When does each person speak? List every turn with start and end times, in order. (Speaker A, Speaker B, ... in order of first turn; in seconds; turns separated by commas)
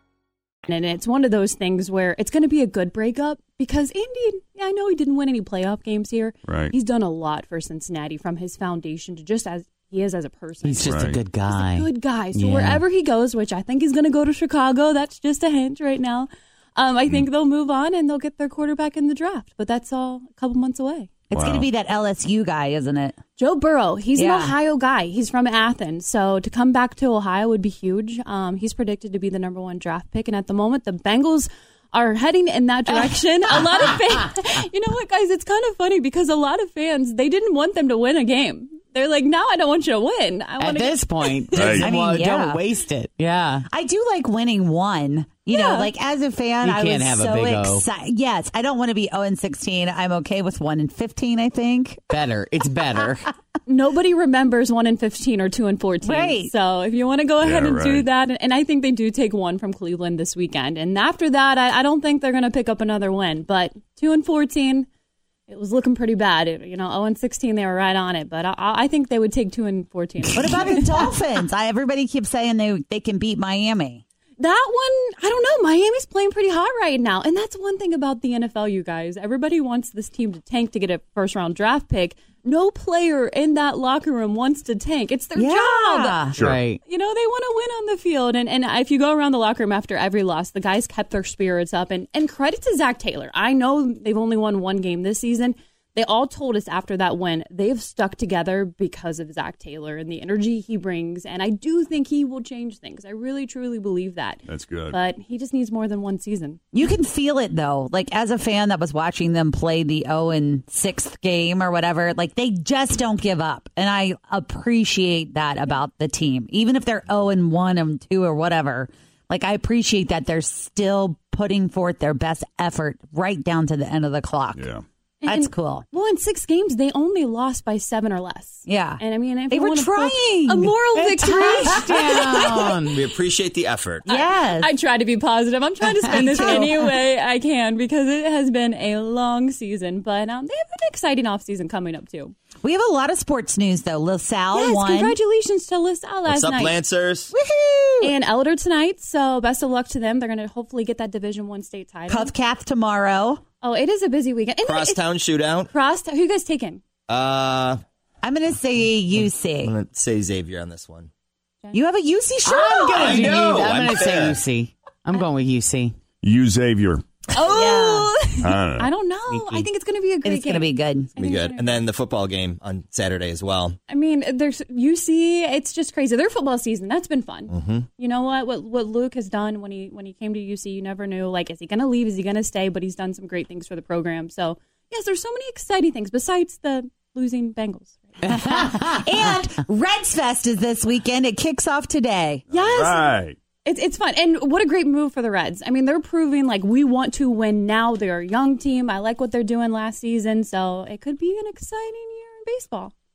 Speaker A: 0.7-21.1, Speaker B: 6.5-6.7, Speaker C: 10.6-12.8, Speaker B: 10.8-11.2, Speaker D: 21.3-23.2, Speaker B: 21.3-21.7, Speaker A: 23.4-41.9, Speaker D: 24.1-24.6, Speaker C: 40.6-43.6, Speaker B: 41.5-41.9, Speaker D: 42.0-42.6, Speaker D: 43.7-52.2, Speaker A: 45.5-45.9, Speaker C: 46.6-47.9, Speaker C: 52.1-53.3, Speaker A: 53.6-64.9, Speaker D: 56.0-56.5, Speaker B: 57.4-58.1, Speaker A: 65.5-71.1, Speaker D: 70.3-74.0, Speaker A: 74.4-86.3, Speaker D: 85.3-86.3, Speaker B: 86.4-86.6, Speaker C: 86.4-86.8, Speaker A: 86.8-106.6, Speaker B: 104.5-105.0, Speaker D: 106.7-124.6, Speaker B: 124.5-124.8, Speaker A: 125.2-132.9, Speaker D: 125.2-125.8, Speaker D: 128.7-130.7, Speaker C: 130.9-133.0, Speaker E: 132.9-134.1, Speaker D: 134.0-134.7, Speaker A: 134.1-142.3, Speaker D: 136.1-136.7, Speaker C: 136.1-136.7, Speaker D: 142.6-145.2, Speaker A: 144.5-146.8, Speaker E: 146.2-147.3, Speaker D: 147.3-148.1, Speaker A: 148.0-152.3, Speaker D: 152.1-153.4, Speaker A: 153.6-155.1, Speaker E: 154.6-155.7, Speaker A: 155.6-156.8, Speaker E: 157.1-157.8, Speaker D: 158.2-159.7, Speaker E: 159.2-161.1, Speaker D: 161.7-163.2, Speaker C: 162.4-165.9, Speaker E: 162.9-164.4, Speaker B: 166.2-167.0, Speaker A: 167.3-171.9, Speaker D: 167.5-168.1, Speaker B: 168.4-168.9, Speaker C: 169.3-169.7, Speaker D: 170.2-171.1, Speaker E: 171.2-173.8, Speaker A: 173.9-188.5, Speaker E: 177.5-177.9, Speaker C: 188.3-188.9, Speaker D: 188.4-192.4, Speaker A: 192.5-193.1, Speaker B: 192.5-193.4, Speaker A: 193.6-202.9